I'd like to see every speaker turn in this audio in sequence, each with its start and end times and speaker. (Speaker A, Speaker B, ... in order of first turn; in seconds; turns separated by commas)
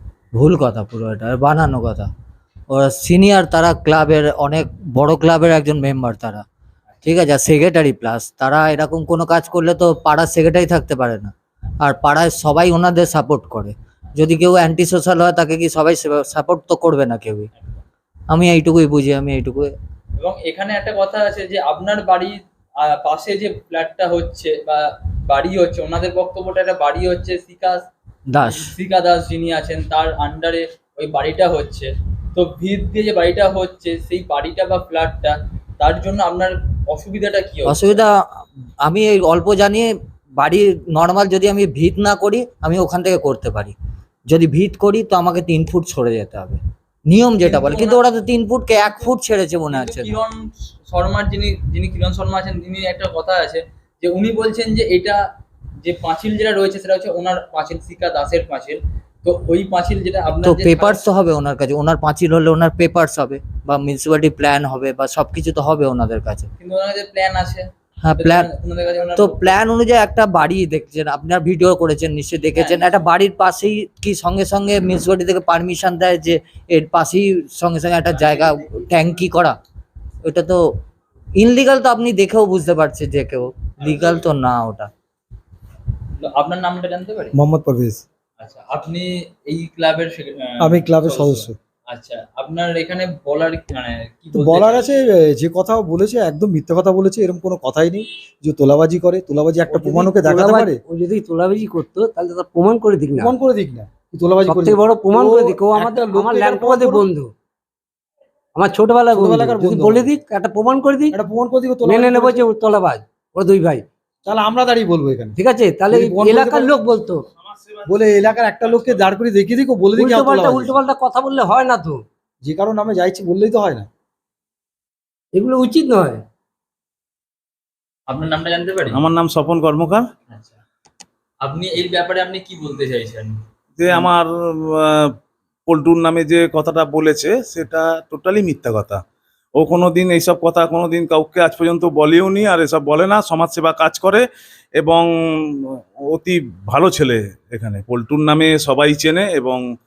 Speaker A: 0.4-2.1, Speaker A: 2.7-6.5, Speaker A: 7.0-17.5, Speaker A: 18.3-19.7, Speaker B: 20.2-27.9, Speaker A: 28.3-28.7, Speaker B: 28.5-38.0, Speaker A: 37.7-38.1, Speaker A: 38.9-43.7, Speaker A: 44.3-46.6, Speaker A: 47.1-50.2, Speaker B: 47.4-48.0, Speaker B: 48.7-49.1, Speaker B: 49.7-55.2, Speaker B: 55.8-61.0, Speaker A: 60.4-66.5, Speaker B: 66.6-67.7, Speaker A: 68.0-68.5, Speaker B: 68.2-69.6, Speaker A: 69.2-79.6, Speaker B: 72.5-73.0, Speaker A: 80.3-80.6, Speaker A: 81.4-84.9, Speaker B: 86.2-87.4, Speaker C: 87.3-88.0, Speaker B: 88.4-94.8, Speaker C: 90.7-91.6, Speaker C: 94.3-100.8, Speaker D: 99.7-103.3, Speaker C: 103.2-107.1, Speaker D: 104.5-107.3, Speaker D: 108.6-111.2, Speaker C: 109.1-110.1, Speaker C: 111.1-112.5, Speaker D: 111.8-113.8, Speaker C: 114.3-116.8, Speaker D: 115.4-117.2, Speaker E: 117.4-119.0, Speaker C: 117.9-120.8, Speaker D: 120.0-122.0, Speaker C: 122.4-123.9, Speaker D: 125.3-126.2, Speaker B: 128.1-129.0, Speaker E: 128.9-130.1, Speaker B: 130.3-130.6, Speaker B: 131.4-133.4, Speaker E: 133.8-135.1, Speaker E: 135.7-139.0, Speaker E: 139.6-144.2, Speaker E: 144.8-149.6